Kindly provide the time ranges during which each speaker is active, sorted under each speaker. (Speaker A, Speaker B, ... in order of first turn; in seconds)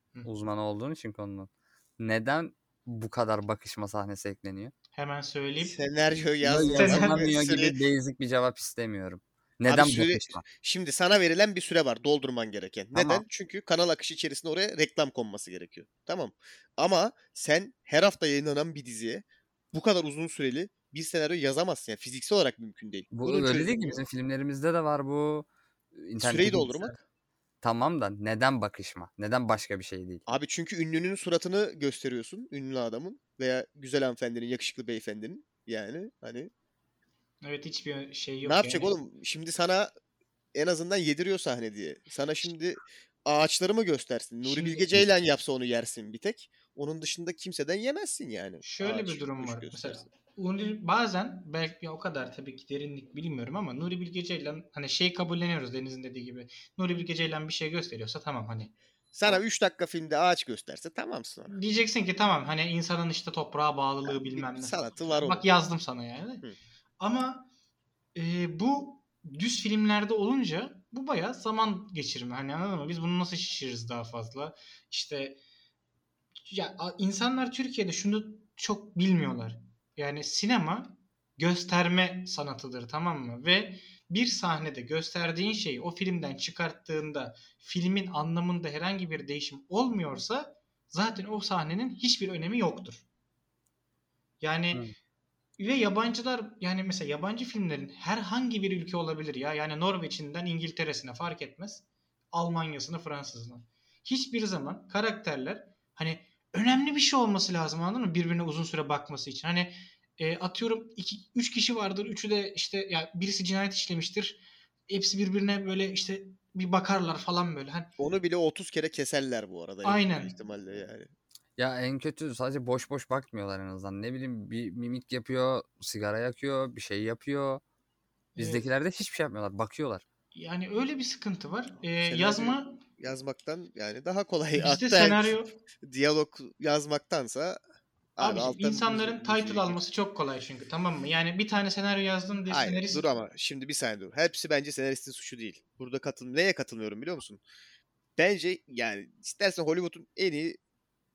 Speaker A: 0.2-4.7, 6.4-10.4, 12.9-13.2, 23.1-26.9, 27.6-30.2, 121.6-127.6, 128.4-130.0
Speaker B: 4.9-5.8, 6.7-7.2, 37.4-38.9, 44.4-44.9, 48.6-58.7, 61.5-66.5, 67.0-67.5, 68.1-75.4, 76.5-93.0, 94.4-94.8, 95.6-117.9, 119.8-120.3, 128.3-128.6, 130.3-132.8, 134.6-135.5, 138.2-143.0
Speaker C: 5.6-7.8, 9.7-24.0, 26.2-27.0, 30.3-36.5, 38.4-39.9, 40.5-50.1, 59.1-61.5, 64.0-65.5, 118.0-121.1, 132.0-137.6, 138.2-139.9, 142.5-147.4, 148.2-150.6